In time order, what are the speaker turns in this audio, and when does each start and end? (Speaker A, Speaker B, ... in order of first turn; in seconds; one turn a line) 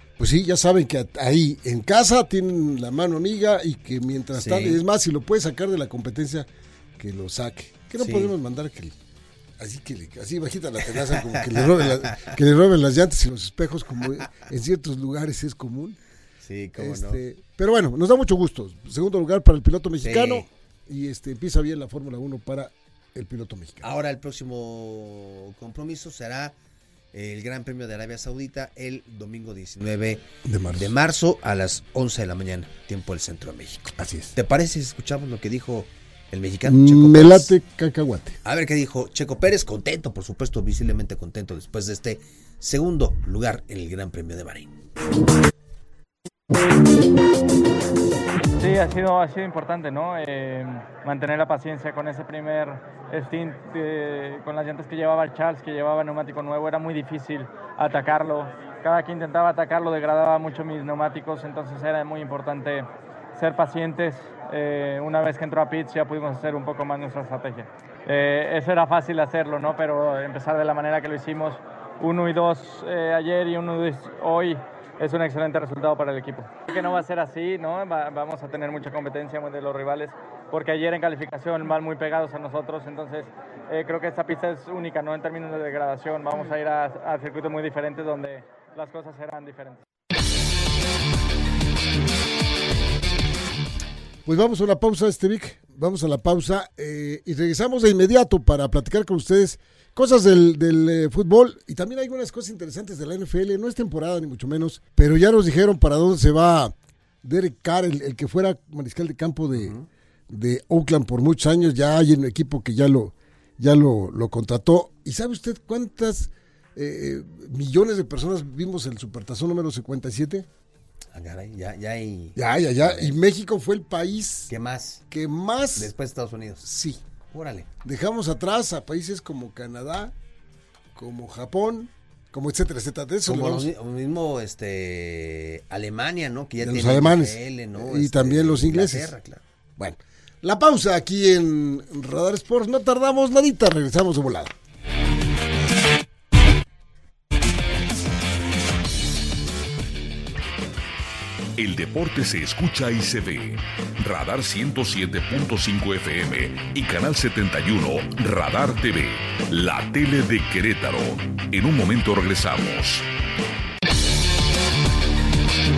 Speaker A: 0.2-8.9
Speaker B: 4.3-4.8
Speaker B: 8.0-8.3
Speaker A: 9.6-16.0
Speaker B: 11.2-12.3
Speaker B: 16.4-17.2
Speaker A: 16.8-23.9
Speaker B: 20.0-20.5
Speaker B: 23.8-26.5
Speaker B: 27.1-30.2
Speaker A: 30.4-30.9
Speaker B: 30.8-37.5
Speaker A: 34.0-34.3
Speaker A: 36.6-38.4
Speaker B: 38.4-44.7
Speaker C: 48.5-89.8
Speaker A: 94.2-109.8
Speaker B: 109.6-109.8
Speaker A: 110.3-120.5
Speaker B: 121.1-123.2
Speaker A: 122.3-124.5
Speaker B: 124.5-125.0
Speaker A: 125.1-125.9
Speaker B: 125.8-126.7
Speaker A: 126.6-127.0
Speaker B: 127.3-127.7
Speaker A: 127.8-130.1
Speaker A: 130.9-133.7
Speaker B: 133.2-139.4
Speaker A: 136.6-139.1
Speaker A: 139.8-144.5
Speaker D: 151.6-163.1